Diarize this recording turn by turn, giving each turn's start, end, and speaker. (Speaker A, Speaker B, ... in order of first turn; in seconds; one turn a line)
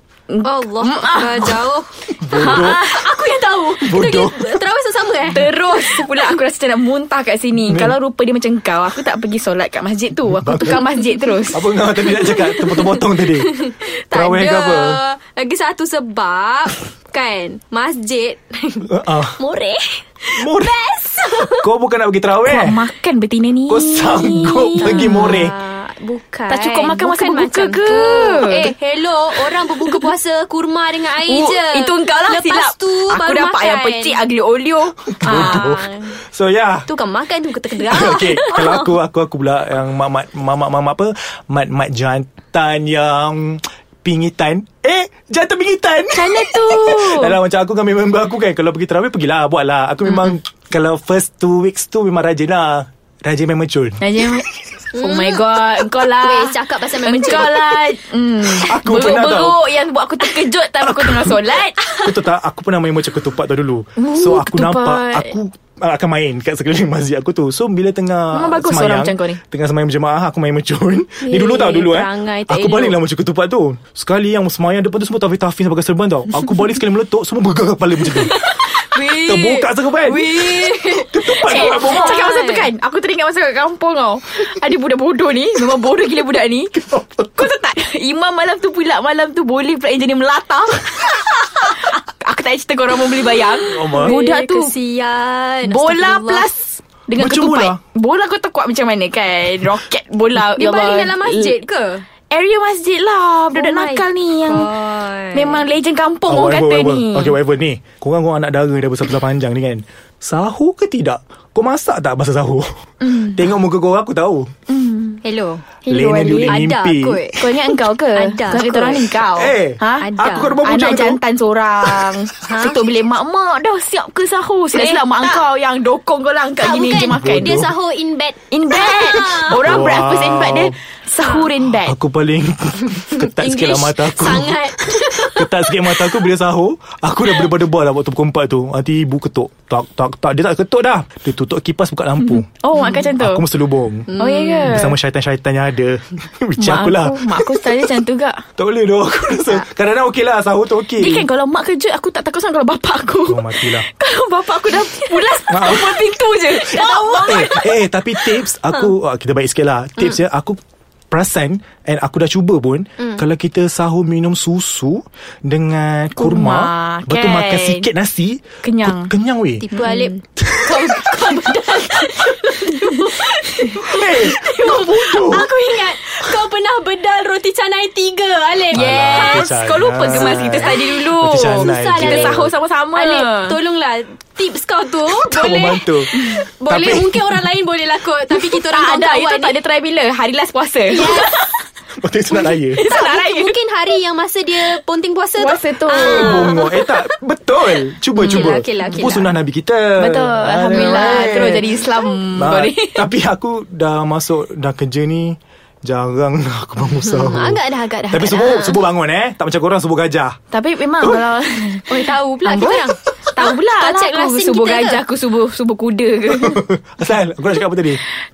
Speaker A: 0.3-1.6
Speaker B: 0.4-6.3
Speaker C: 2.1-2.9
Speaker A: 2.4-2.8
Speaker C: 3.8-4.6
Speaker A: 5.2-11.9
Speaker C: 7.5-8.0
Speaker C: 10.3-10.9
Speaker C: 11.5-13.6
Speaker B: 12.1-21.7
Speaker C: 14.1-15.0
Speaker C: 18.9-19.4
Speaker C: 20.4-22.8
Speaker A: 22.5-25.4
Speaker C: 23.7-25.6
Speaker B: 24.4-34.2
Speaker A: 26.5-28.7
Speaker A: 29.8-30.1
Speaker A: 31.3-35.7
Speaker C: 35.1-36.9
Speaker B: 35.2-36.2
Speaker B: 36.9-39.0
Speaker C: 37.9-54.3
Speaker A: 46.1-47.4
Speaker A: 54.0-61.9
Speaker B: 54.9-57.9
Speaker C: 58.4-59.7
Speaker C: 60.8-61.4
Speaker C: 62.0-78.6
Speaker A: 64.0-65.3
Speaker A: 68.3-69.4
Speaker B: 71.2-73.0
Speaker B: 78.2-82.7
Speaker C: 79.1-82.2
Speaker A: 81.5-94.7
Speaker B: 93.6-96.5
Speaker C: 93.7-94.2
Speaker A: 95.6-101.5
Speaker C: 97.2-97.8
Speaker B: 100.5-102.1
Speaker A: 102.3-104.7
Speaker B: 103.5-105.6
Speaker A: 105.3-107.4
Speaker C: 106.3-114.5
Speaker A: 113.0-113.5
Speaker A: 114.7-115.2
Speaker B: 115.2-115.7
Speaker A: 115.8-116.6
Speaker C: 115.9-117.2
Speaker B: 116.5-119.2
Speaker A: 117.4-127.6
Speaker C: 119.3-121.2
Speaker B: 120.0-120.6
Speaker C: 121.8-122.2
Speaker B: 122.4-122.8
Speaker B: 124.7-125.4
Speaker B: 126.6-129.7
Speaker C: 126.9-127.8
Speaker A: 128.5-131.9
Speaker C: 129.3-130.8
Speaker B: 131.2-131.5
Speaker C: 131.7-144.1
Speaker B: 133.1-136.2
Speaker A: 142.2-143.4
Speaker B: 144.1-144.8
Speaker A: 144.2-144.9
Speaker C: 144.6-147.9
Speaker A: 146.6-148.4
Speaker C: 148.6-151.3
Speaker A: 151.0-157.8
Speaker C: 153.3-153.9
Speaker C: 155.5-156.0
Speaker B: 156.6-157.6
Speaker C: 156.7-160.6
Speaker C: 161.1-169.7
Speaker A: 166.2-167.9
Speaker A: 168.6-169.1
Speaker B: 169.6-189.6
Speaker A: 169.7-170.2
Speaker C: 170.4-171.1
Speaker A: 172.7-174.0
Speaker C: 173.8-175.5
Speaker A: 178.7-183.6
Speaker C: 178.7-182.5
Speaker C: 185.2-186.1
Speaker A: 185.5-186.5
Speaker C: 186.7-187.3
Speaker A: 188.3-191.2
Speaker B: 190.9-191.6
Speaker C: 192.0-192.8
Speaker A: 192.5-193.6
Speaker B: 192.9-197.0
Speaker A: 195.4-196.6
Speaker C: 196.0-210.4
Speaker B: 198.2-199.3
Speaker A: 198.2-198.6
Speaker A: 200.0-203.1
Speaker B: 200.7-201.9
Speaker B: 206.9-208.9
Speaker A: 210.5-211.9
Speaker B: 211.9-215.0
Speaker A: 212.4-216.7
Speaker C: 216.3-218.0